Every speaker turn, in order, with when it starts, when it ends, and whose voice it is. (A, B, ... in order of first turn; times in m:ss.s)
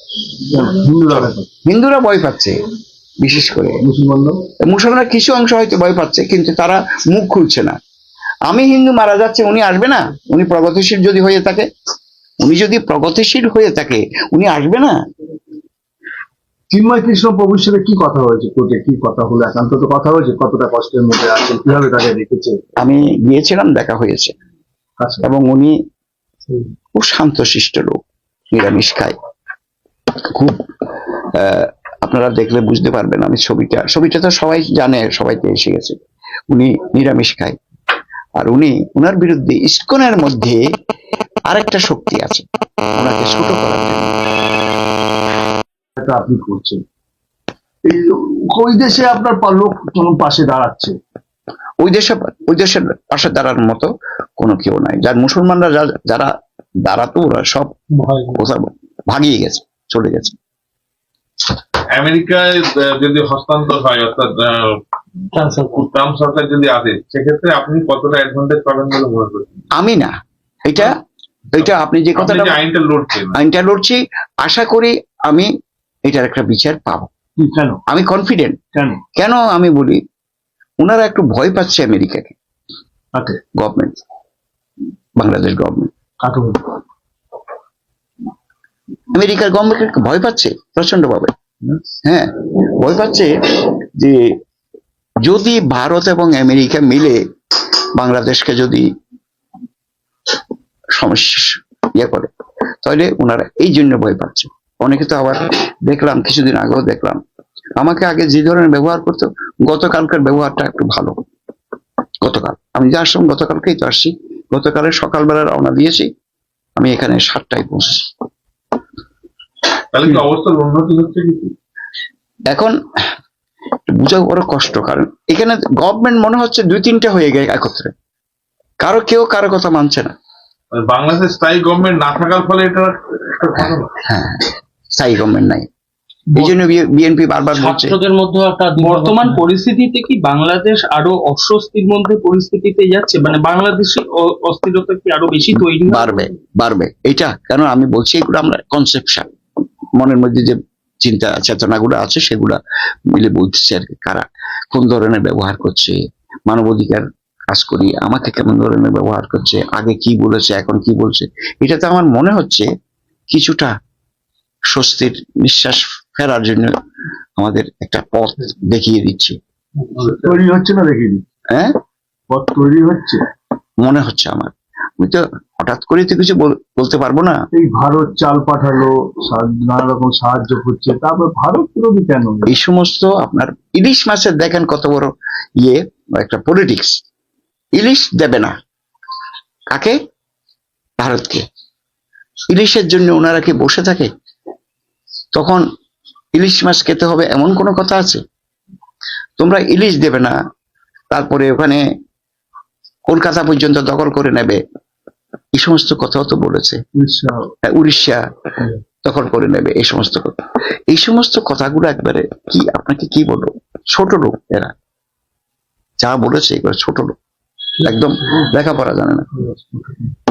0:00.4-0:01.5 A
0:01.6-0:02.6 B
0:03.2-0:03.8 B
0:03.8-0:04.4 A
0:04.6-0:07.8 B
0:08.5-0:11.6 B
0:12.4-0:15.0 B
0:16.7-0:22.6 A
0:22.8-0:24.3 B
0:25.0-0:25.2 A
0:25.2-0:25.8 B
0:27.0-0:28.0 B
0:28.5-0:29.1 B
0:30.2-0:30.6 B
0:31.3-0:36.0 B
0:36.5-0:37.6 B
0:38.4-0:40.6 B
0:41.5-0:42.4 B
0:42.9-0:44.1 B
0:46.0-0:46.8 A
0:47.8-0:50.9 A
0:51.8-0:56.3 B
0:56.8-0:57.7 B
0:58.0-0:58.4 C
0:58.3-1:00.4 B
1:02.0-1:04.8 D
1:05.3-1:05.8 C
1:05.7-1:09.6 D
1:09.8-1:10.1 B
1:10.6-1:10.9 B
1:11.5-1:12.6 B
1:11.6-1:13.4 D
1:13.3-1:15.5 B
1:16.1-1:17.1 B
1:17.4-1:17.8 A
1:17.9-1:18.6 B
1:18.7-1:19.0 A
1:19.2-1:20.0 B
1:20.8-1:22.3 B
1:23.6-1:24.0 B
1:25.2-1:25.9 B
1:26.2-1:26.6 A
1:29.1-1:31.3 B
1:32.0-1:33.3 B
1:35.2-1:37.2 B
1:38.0-1:38.8 B
1:41.0-1:42.3 B
1:42.8-1:47.2 B
1:47.8-1:51.1 B
1:52.2-1:56.1 B
1:56.8-1:58.1 B
1:59.9-2:01.5 D
2:02.5-2:02.8 B
2:03.9-2:07.9 B
2:08.8-2:10.1 B
2:10.7-2:13.9 D
2:13.6-2:15.6 B
2:16.4-2:18.0 B
2:17.5-2:19.4 C
2:18.8-2:26.2 E
2:25.6-2:29.3 B
2:30.0-2:32.6 B
2:33.1-2:36.0 B
2:36.5-2:42.6 B
2:43.3-2:43.7 B
2:44.7-2:46.7 B
2:47.4-2:49.4 B
2:50.0-2:51.2 A
2:52.3-2:53.2 A
2:53.8-2:57.3 B
2:57.5-3:02.6 A
3:02.5-3:06.9 B
3:07.8-3:08.5 B
3:11.0-3:11.4 B
3:12.5-3:14.1 B
3:15.3-3:15.6 B
3:16.3-3:18.2 B
3:19.4-3:20.4 B
3:21.1-3:21.8 B
3:23.1-3:24.6 B
3:25.5-3:26.8 B
3:26.9-3:27.4 A
3:27.7-3:28.2 B
3:29.0-3:30.3 B
3:30.9-3:34.7 B
3:36.0-3:37.1 B
3:37.8-3:39.3 B